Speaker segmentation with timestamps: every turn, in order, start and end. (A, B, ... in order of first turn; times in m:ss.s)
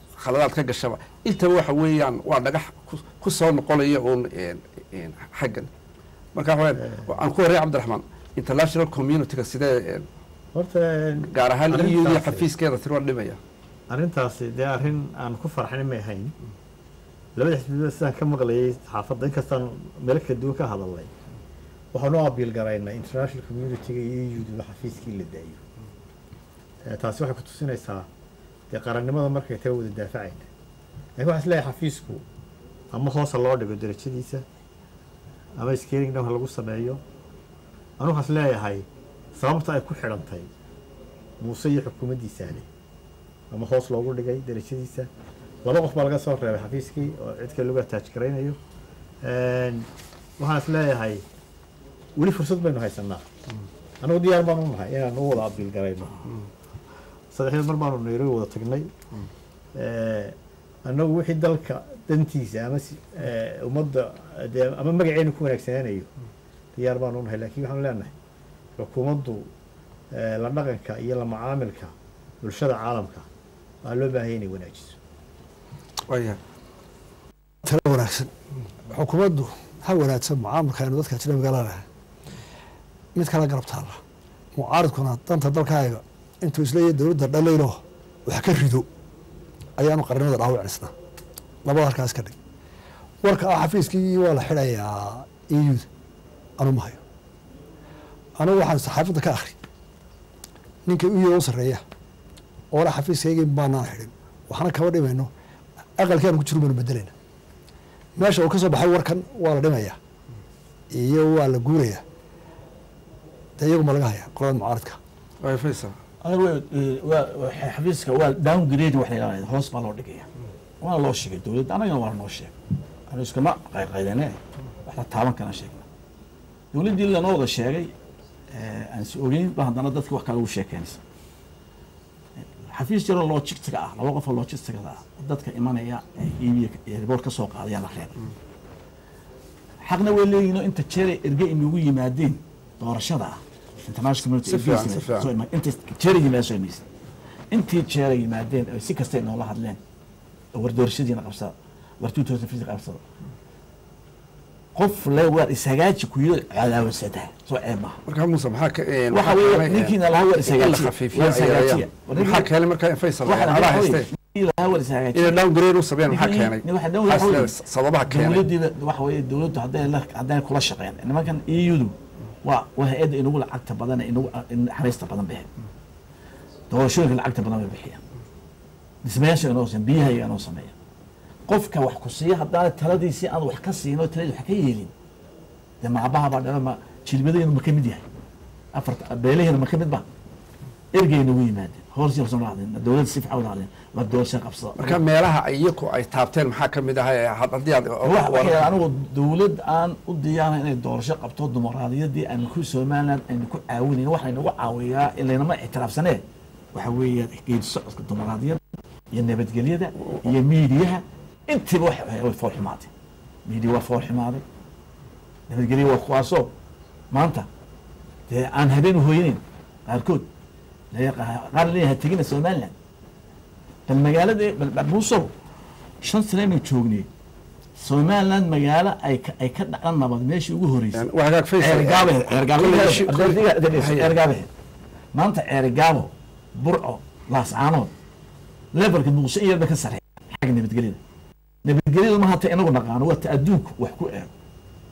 0:00.2-0:05.7 A
0:06.3-0:10.0 A
0:10.5-0:12.4 B
0:11.3-0:13.4 A
0:13.9-0:16.3 B
0:17.4-0:21.1 B
0:21.9-0:25.6 B
0:26.8-0:28.1 B
0:28.7-0:30.4 B
0:31.2-0:32.2 B
0:32.9-0:34.4 B
0:35.6-0:37.0 B
0:38.0-0:40.5 B
0:41.4-0:42.7 B
0:43.5-0:45.1 B
0:45.6-0:48.6 B
0:49.2-0:51.2 B
0:52.2-0:53.2 B
0:54.0-0:56.2 B
0:57.3-0:58.9 B
0:59.7-1:06.1 B
1:06.7-1:08.1 B
1:08.8-1:09.5 B
1:10.1-1:13.2 B
1:13.8-1:15.0 B
1:16.1-1:16.4 A
1:17.6-1:18.3 C
1:18.9-1:21.8 C
1:23.1-1:24.0 C
1:24.5-1:28.9 C
1:29.8-1:30.9 C
1:31.6-1:32.4 C
1:33.2-1:35.9 C
1:36.6-1:37.0 C
1:38.4-1:39.6 C
1:40.8-1:41.8 C
1:42.7-1:45.3 C
1:46.0-1:47.1 C
1:48.2-1:50.0 C
1:50.9-1:52.0 C
1:53.6-1:55.0 C
1:55.4-1:56.0 A
1:56.2-2:00.3 D
2:00.8-2:02.5 D
2:03.1-2:05.8 D
2:06.7-2:07.9 D
2:08.5-2:11.0 D
2:12.6-2:18.2 D
2:19.8-2:26.8 D
2:24.5-2:25.3 A
2:27.5-2:29.8 D
2:30.5-2:33.0 D
2:34.7-2:38.0 D
2:38.0-2:44.1 A
2:39.1-2:42.5 D
2:43.3-2:45.4 D
2:45.1-2:48.4 A
2:46.1-2:47.6 D
2:48.1-2:55.5 D
2:56.7-2:58.0 D
2:59.0-3:00.7 D
3:01.5-3:04.9 D
3:05.8-3:08.0 D
3:08.7-3:10.0 D
3:10.9-3:15.0 D
3:14.8-3:18.6 A
3:18.0-3:26.2 D
3:26.7-3:28.6 D
3:29.1-3:32.9 D
3:33.4-3:34.4 D
3:35.5-3:36.5 D
3:37.1-3:37.5 D
3:38.3-3:40.3 D
3:40.9-3:42.7 D
3:43.9-3:45.3 D
3:46.0-3:47.1 D
3:47.8-3:51.1 D
3:50.9-3:54.2 A
3:51.6-3:54.5 D
3:55.1-3:57.9 D
3:58.7-4:01.0 D
4:01.6-4:04.3 D